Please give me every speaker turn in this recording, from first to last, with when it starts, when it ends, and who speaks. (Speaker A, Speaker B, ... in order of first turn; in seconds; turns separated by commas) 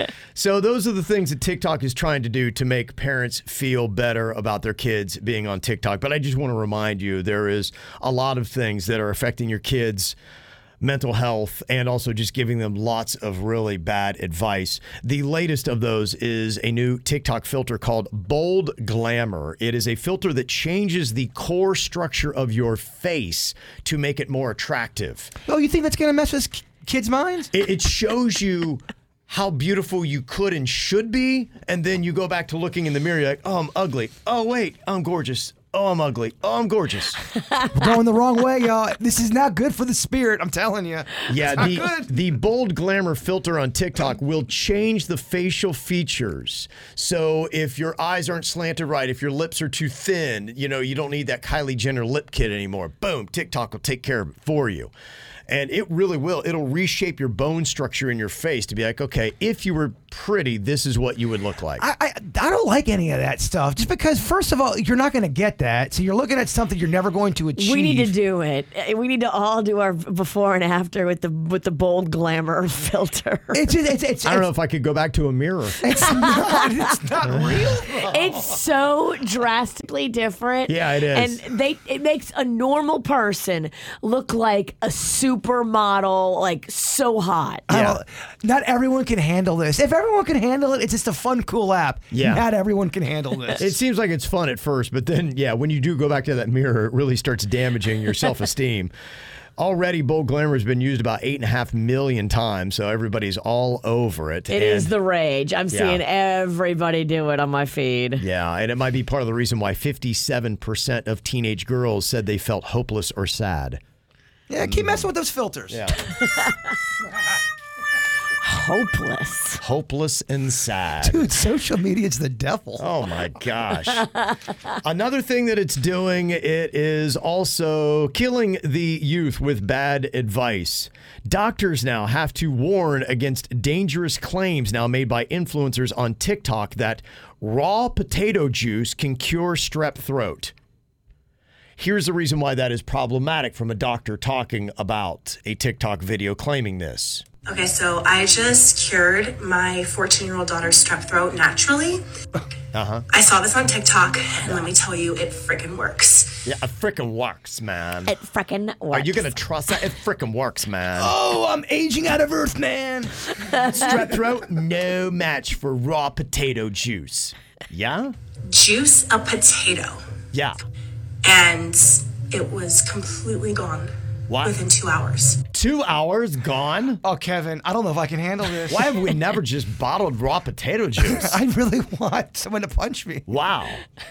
Speaker A: 0.3-10.2, Speaker A: 10.8-25.3, Speaker B: 25.4-27.5, Speaker A: 27.5-37.2, Speaker B: 37.7-42.1, Speaker A: 41.3-54.9, Speaker A: 55.5-61.8, Speaker B: 61.8-68.1, Speaker C: 67.6-73.7, Speaker B: 73.5-74.5, Speaker A: 74.2-75.8, Speaker B: 75.8-78.5, Speaker C: 76.0-76.7, Speaker A: 77.2-77.7, Speaker C: 78.1-87.7, Speaker A: 80.7-81.4, Speaker B: 87.7-93.7, Speaker A: 87.7-88.0, Speaker A: 92.1-92.4, Speaker A: 93.5-98.9, Speaker A: 99.6-104.9, Speaker C: 104.5-108.2, Speaker A: 105.7-106.0, Speaker A: 108.2-113.8, Speaker B: 114.5-115.9, Speaker A: 114.6-115.1, Speaker A: 115.7-116.0, Speaker C: 118.4-119.6, Speaker A: 119.6-121.2, Speaker B: 121.0-122.8, Speaker A: 122.8-124.1, Speaker A: 124.8-140.5, Speaker A: 141.8-147.2, Speaker D: 147.4-152.0, Speaker A: 152.7-153.1, Speaker D: 153.1-156.4, Speaker A: 156.4-158.1, Speaker C: 158.1-159.3, Speaker A: 158.9-161.1, Speaker B: 160.9-164.0, Speaker A: 163.7-168.1, Speaker D: 168.5-170.0, Speaker D: 171.2-173.9, Speaker A: 174.3-174.6, Speaker D: 174.4-175.4, Speaker A: 175.5-177.0, Speaker B: 177.0-179.0, Speaker A: 178.7-181.3, Speaker B: 181.0-183.2, Speaker A: 183.3-183.8